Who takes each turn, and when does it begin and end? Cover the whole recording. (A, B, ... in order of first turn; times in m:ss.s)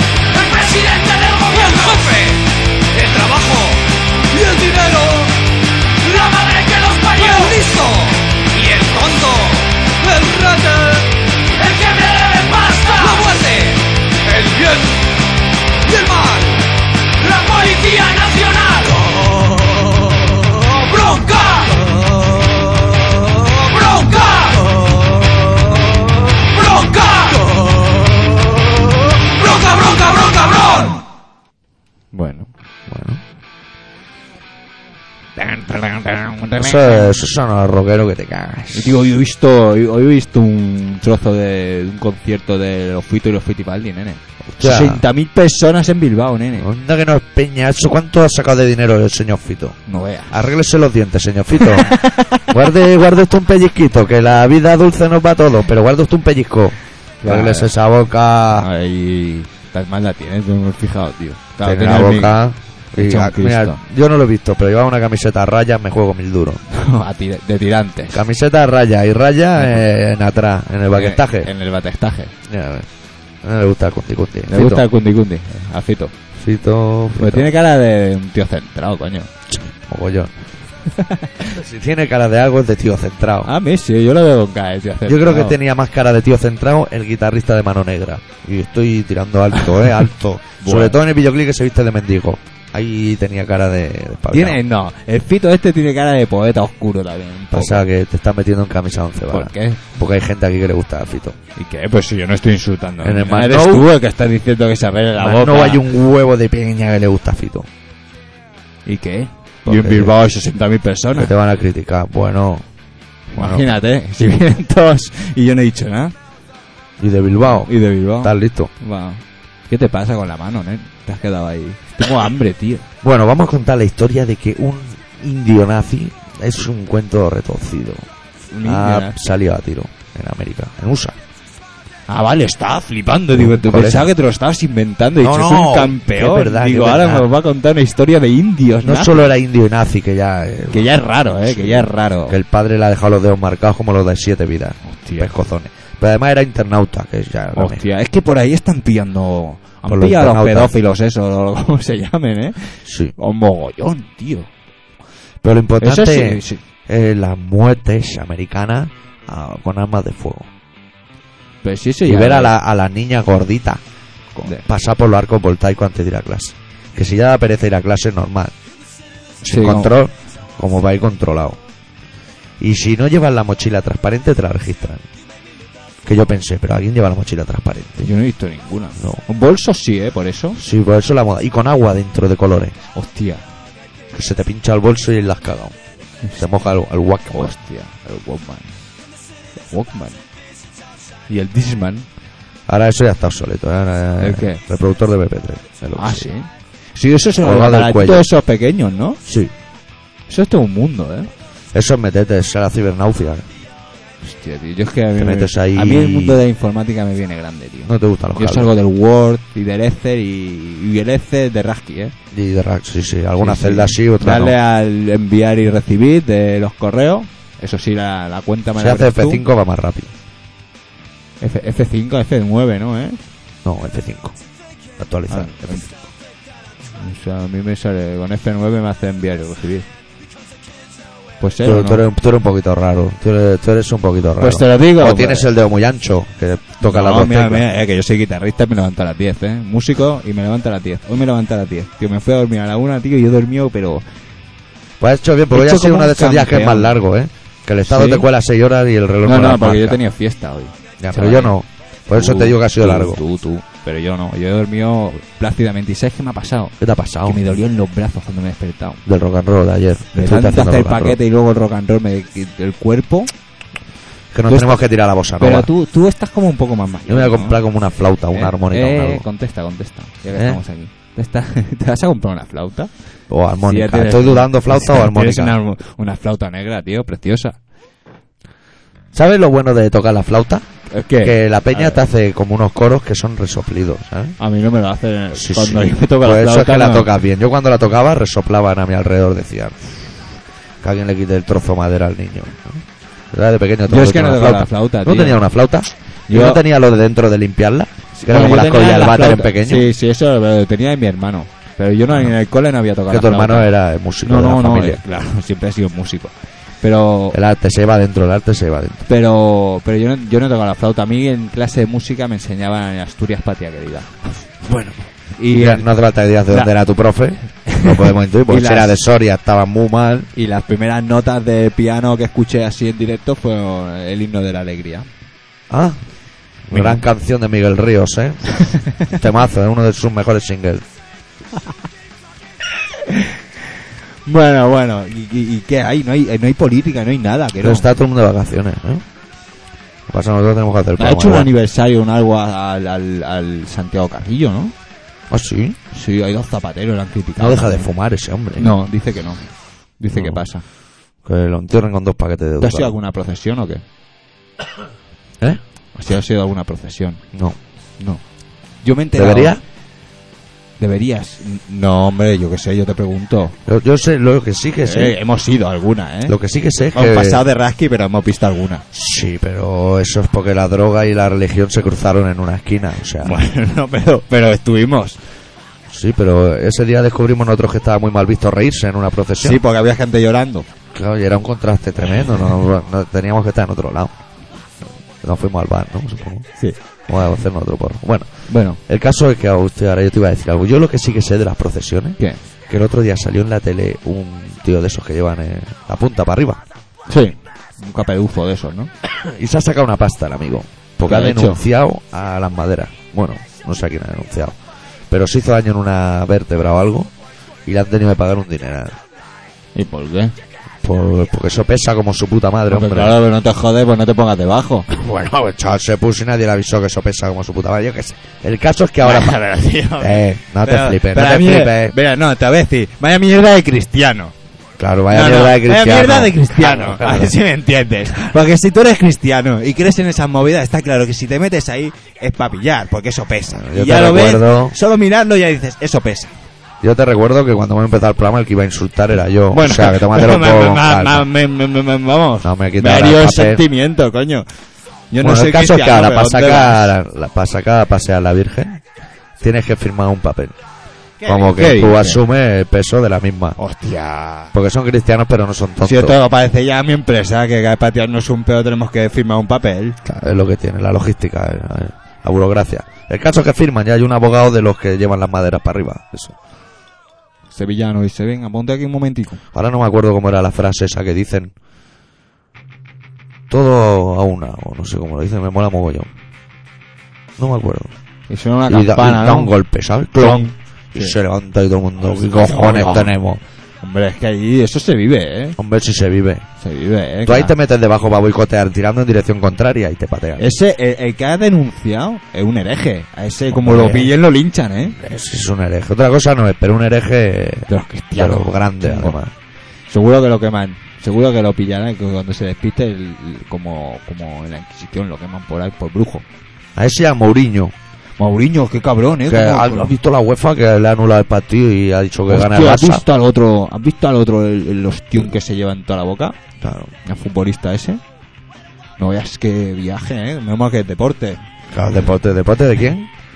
0:00.3-0:05.4 A
0:06.0-0:15.2 A
0:15.8-0:22.0 A
0:23.4-0:24.8 A
0:26.4-0:27.7 A
0:29.3-0:31.0 A
0:32.1-0:32.5 B
0:32.9-0:33.2 C
0:35.4-0:37.2 B
0:36.6-0:39.0 C
0:38.7-0:46.7 B
0:44.5-0:45.0 C
0:46.6-0:49.8 C
0:49.8-0:50.4 B
0:50.3-0:58.7 C
0:51.9-0:52.4 B
0:57.2-0:57.7 B
0:58.5-1:02.4 B
1:01.6-1:06.6 C
1:02.9-1:03.8 B
1:06.7-1:08.2 B
1:08.1-1:11.5 C
1:09.6-1:09.8 B
1:10.9-1:12.3 B
1:12.5-1:12.9 C
1:13.4-1:14.8 C
1:14.5-1:16.1 B
1:16.4-1:17.5 C
1:17.2-1:19.3 B
1:19.5-1:20.3 C
1:20.9-1:21.3 B
1:21.4-1:23.5 C
1:23.4-1:25.6 B
1:25.1-1:34.6 C
1:30.6-1:31.0 B
1:34.3-1:37.8 B
1:37.5-1:41.4 C
1:39.3-1:39.8 B
1:41.6-1:45.9 B
1:43.0-1:43.9 C
1:45.2-1:47.7 C
1:48.8-1:51.3 B
1:49.6-1:50.1 C
1:51.1-1:52.7 C
1:53.3-1:56.1 B
1:53.3-1:53.7 C
1:57.0-1:58.7 C
1:57.5-2:02.8 B
2:03.0-2:08.1 C
2:08.5-2:09.2 B
2:08.6-2:11.2 C
2:12.1-2:19.3 B
2:13.3-2:14.1 C
2:15.2-2:17.3 C
2:18.8-2:20.9 C
2:20.7-2:22.4 B
2:21.4-2:27.8 C
2:24.8-2:25.3 B
2:27.5-2:34.5 B
2:29.9-2:30.7 C
2:32.8-2:33.1 C
2:35.4-2:40.5 C
2:35.8-2:36.6 B
2:41.6-2:42.5 B
2:42.0-2:43.8 C
2:44.3-2:44.6 B
2:44.4-2:48.5 C
2:49.4-2:51.6 C
2:49.4-2:49.9 B
2:52.6-2:55.0 C
2:56.0-2:58.1 C
2:58.0-3:00.6 B
3:00.6-3:02.8 C
3:02.9-3:03.4 B
3:04.1-3:05.8 C
3:06.4-3:07.5 C
3:07.3-3:08.8 B
3:09.7-3:10.2 B
3:11.3-3:12.0 B
3:12.7-3:16.3 C
3:14.2-3:14.6 B
3:16.0-3:19.2 B
3:17.4-3:18.3 C
3:19.2-3:19.5 C
3:20.3-3:21.3 B
3:21.7-3:23.5 C
3:24.2-3:32.1 B
3:25.2-3:26.4 C
3:27.8-3:28.7 C
3:32.3-3:34.5 C
3:33.4-3:39.4 B
3:38.8-3:40.1 C
3:41.4-3:43.2 B
3:43.6-3:44.4 C
3:45.0-3:45.9 C
3:45.3-3:45.9 B
3:46.9-3:49.9 B
3:51.4-3:52.0 B
3:51.6-3:57.6 C
3:54.4-3:55.5 B
3:56.8-4:04.0 B
4:05.0-4:10.0 C
4:05.5-4:07.0 B
4:07.8-4:08.2 B
4:09.2-4:11.5 B
4:11.0-4:13.2 C
4:12.1-4:19.0 B
4:16.8-4:17.4 C
4:19.0-4:21.2 C
4:20.1-4:23.3 B
4:24.3-4:25.7 C
4:24.5-4:24.8 B
4:25.4-4:27.6 B
4:27.1-4:29.2 C
4:28.3-4:32.9 B
4:30.3-4:30.6 C
4:33.3-4:35.6 C
4:33.6-4:37.6 B
4:39.1-4:40.7 C
4:40.9-4:42.0 B
4:41.2-4:44.4 C
4:44.4-4:47.1 B
4:45.3-4:50.1 C
4:50.8-4:59.9 C
4:53.9-4:55.4 B
4:56.3-4:56.6 B
4:58.1-5:03.7 B
5:03.1-5:05.0 C
5:04.2-5:07.4 B
5:07.3-5:09.0 C
5:09.1-5:14.3 B
5:14.6-5:15.0 C
5:15.3-5:15.9 B
5:15.5-5:20.3 C
5:17.6-5:19.0 B
5:20.3-5:25.1 B
5:25.7-5:26.0 C
5:26.7-5:30.8 C
5:26.7-5:27.0 B
5:33.1-5:33.3 B
5:34.2-5:37.9 B
5:37.6-5:39.0 C
5:40.1-5:41.5 C
5:41.0-5:44.7 B
5:45.3-5:45.8 C
5:45.9-5:47.9 B
5:47.4-5:48.7 C
5:48.6-5:50.6 B
5:50.1-5:50.4 C
5:51.2-5:52.9 C
5:52.6-5:53.8 B
5:55.9-5:57.2 B
5:58.8-5:59.6 B
5:59.1-5:59.6 C
6:00.8-6:03.6 B
6:03.6-6:05.1 C
6:04.8-6:06.4 B
6:06.3-6:07.4 C
6:06.9-6:08.8 B
6:08.9-6:13.4 C
6:13.2-6:15.2 B
6:15.9-6:19.6 C
6:19.4-6:20.7 B
6:20.9-6:24.1 C
6:25.2-6:26.5 C
6:27.1-6:36.6 C
6:28.5-6:28.8 B
6:37.1-6:38.9 B
6:39.0-6:44.6 C
6:41.0-6:41.6 B
6:45.1-6:47.1 C
6:47.6-6:49.0 C
6:49.7-6:50.3 B
6:50.8-6:53.2 C
6:52.7-6:54.9 B
6:54.9-6:59.4 C
6:59.0-7:04.3 B
7:00.0-7:01.9 C
7:04.8-7:07.3 C
7:05.1-7:16.3 B
7:13.5-7:14.7 C
7:16.8-7:21.2 C
7:19.5-7:24.4 B
7:22.4-7:23.6 C
7:25.1-7:26.9 B
7:25.2-7:28.8 C
7:29.4-7:30.6 C
7:31.2-7:32.2 B
7:31.2-7:33.6 C
7:33.6-7:34.5 B
7:34.5-7:36.2 C
7:35.8-7:40.2 B
7:40.1-7:46.3 C
7:47.5-7:49.4 B
7:49.5-7:51.5 C
7:53.5-7:56.1 C
7:57.4-7:57.9 C
7:58.3-7:59.5 B
7:58.7-8:03.4 C
8:00.1-8:01.2 B
8:02.2-8:03.1 B
8:03.8-8:05.6 B
8:05.6-8:06.4 C
8:06.6-8:07.5 B
8:07.2-8:10.4 C
8:10.4-8:15.0 B
8:13.5-8:14.1 C
8:15.0-8:19.3 C
8:17.7-8:19.2 B
8:19.9-8:26.2 B
8:26.8-8:27.7 C
8:28.2-8:29.9 B
8:29.3-8:33.0 C
8:32.3-8:36.4 B
8:36.6-8:36.9 C
8:37.0-8:38.0 B
8:39.0-8:41.4 B
8:41.7-8:43.1 C